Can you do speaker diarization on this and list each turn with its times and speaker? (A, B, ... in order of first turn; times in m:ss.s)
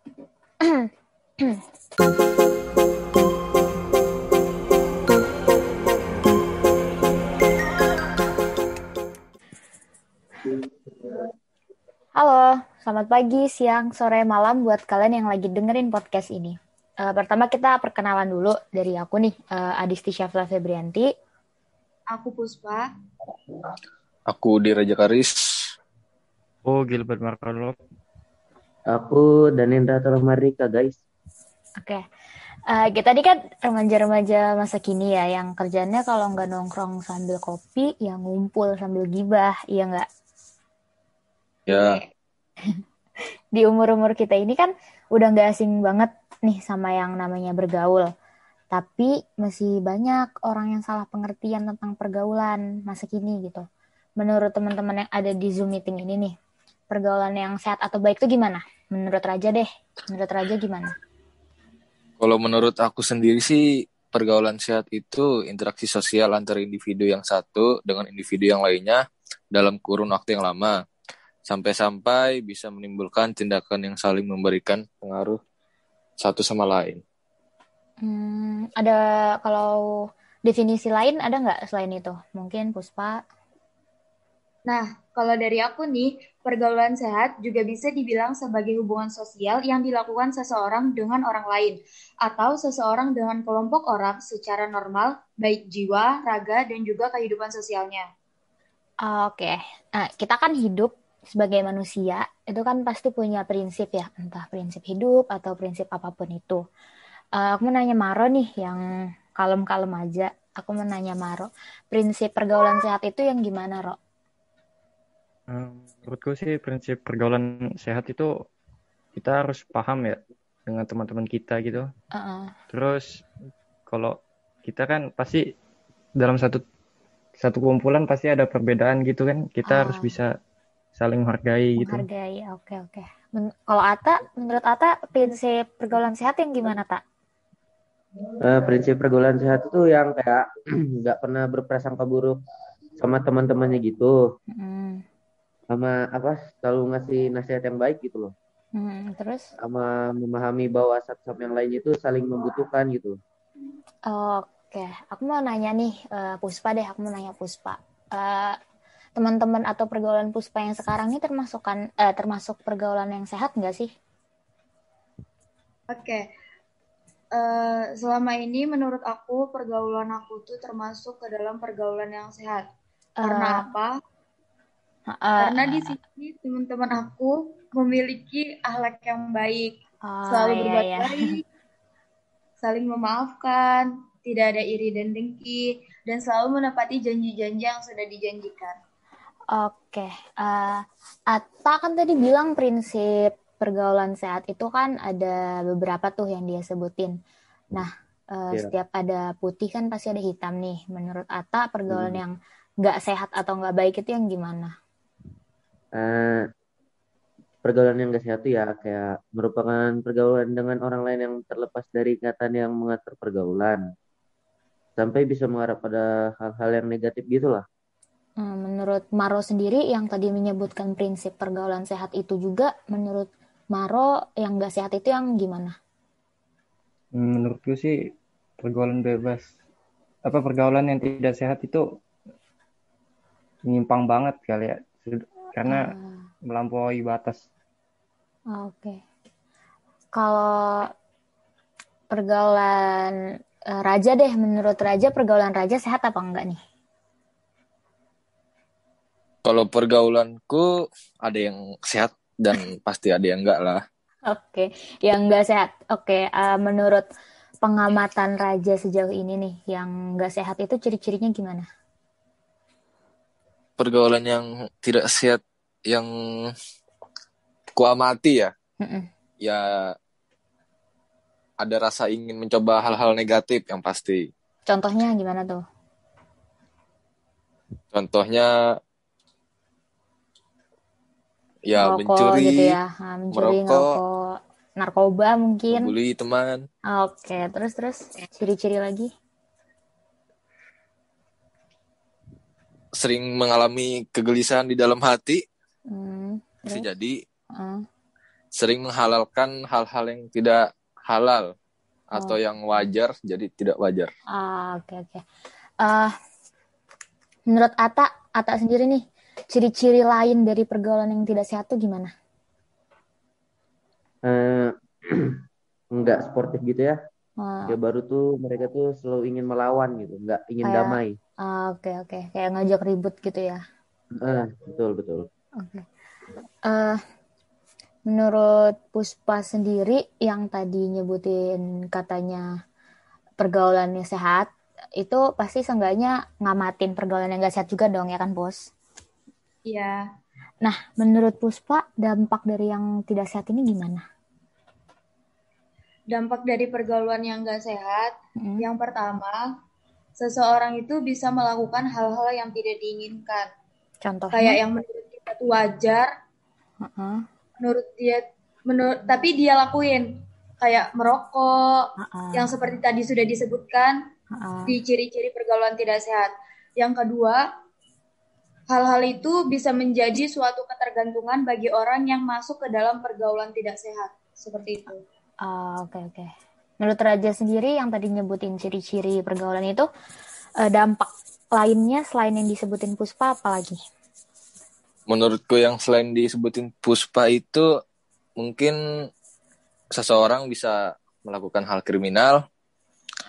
0:12.2-0:21.1 A
0:22.1-0:22.9 B
0:24.3-0:25.4 C
0:26.6-0:27.8 D
0:28.9-0:30.9 E
0:32.7-0:40.1 A
0:41.7-0:42.0 C
0:41.7-0:42.1 B
0:43.5-0:48.1 A
0:48.7-0:53.6 A
0:54.2-0:56.3 A
0:56.9-1:00.9 A
1:02.2-1:09.0 C
1:09.5-1:10.8 C
1:11.5-1:15.4 C
1:16.2-1:17.0 C
1:18.0-1:19.8 A
1:20.4-1:23.2 A
1:24.7-1:38.0 B
1:39.0-1:46.6 A
1:47.4-1:48.8 A
1:49.4-1:54.0 A
1:55.5-1:58.3 D
1:59.2-2:01.9 D
2:02.1-2:02.5 A
2:02.7-2:03.2 D
2:03.9-2:05.4 D
2:06.2-2:06.6 D
2:07.4-2:10.3 D
2:09.7-2:10.2 A
2:11.0-2:12.1 D
2:11.8-2:17.0 A
2:18.4-2:22.4 E
2:23.0-2:24.2 E
2:24.5-2:25.0 A
2:25.7-2:28.3 E
2:28.8-2:29.5 A
2:29.6-2:33.2 E
2:34.1-2:38.6 A
2:39.2-2:43.9 A
2:45.9-2:46.2 B
2:47.4-2:52.6 B
2:53.2-2:53.7 A
2:53.2-2:53.9 B
2:55.1-2:56.0 A
2:55.4-3:01.4 B
3:00.0-3:01.3 A
3:02.6-3:08.8 B
3:09.5-3:17.2 A
3:17.7-3:24.7 A
3:21.9-3:22.2 E
3:26.0-3:26.4 E
3:27.6-3:33.8 E
3:35.0-3:37.6 E
3:38.4-3:45.7 A
3:47.2-3:48.0 D
3:48.6-3:49.5 D
3:50.3-3:51.8 D
3:53.7-3:55.9 D
3:55.7-3:56.3 A
3:56.5-3:57.4 D
3:58.5-3:59.0 A
4:00.1-4:00.9 A
4:02.1-4:03.2 A
4:03.8-4:06.6 A
4:09.4-4:10.7 C
4:11.2-4:13.8 C
4:14.3-4:17.0 A
4:17.6-4:21.7 A
4:23.8-4:26.5 C
4:27.8-4:28.5 C
4:28.8-4:29.1 A
4:31.6-4:34.3 C
4:34.7-4:35.6 A
4:37.9-4:38.5 C
4:41.7-4:42.8 C
4:41.8-4:45.9 A
4:43.3-4:44.0 C
4:45.7-4:46.6 C
4:46.9-4:49.1 A
4:53.0-4:55.4 C
4:55.9-4:56.8 A
4:56.7-4:57.2 C
4:57.6-4:57.8 A
4:58.5-5:01.5 C
5:02.1-5:04.1 C
5:04.3-5:05.2 A
5:05.8-5:06.1 A
5:07.5-5:12.1 A
5:14.2-5:15.4 E
5:15.9-5:17.0 E
5:17.4-5:17.8 A
5:17.7-5:21.2 E
5:20.6-5:23.6 A
5:24.2-5:25.3 E
5:25.6-5:25.9 A
5:26.7-5:27.0 A
5:28.1-5:32.4 A
5:33.4-5:38.7 A
5:39.7-5:40.0 B
5:40.6-5:44.0 A
5:46.1-5:49.4 B
5:48.4-5:48.7 A
5:50.2-5:53.5 B
5:54.0-5:54.6 A
5:54.3-5:56.1 B
5:56.8-5:57.2 A
5:57.6-6:00.1 B
6:00.6-6:04.0 B
6:02.0-6:02.7 A
6:04.3-6:04.8 A
6:04.7-6:07.4 B
6:08.7-6:15.0 B
6:15.4-6:16.3 A
6:16.8-6:19.9 A
6:20.6-6:23.8 A
6:25.1-6:27.6 C
6:28.4-6:28.8 C
6:29.9-6:32.4 C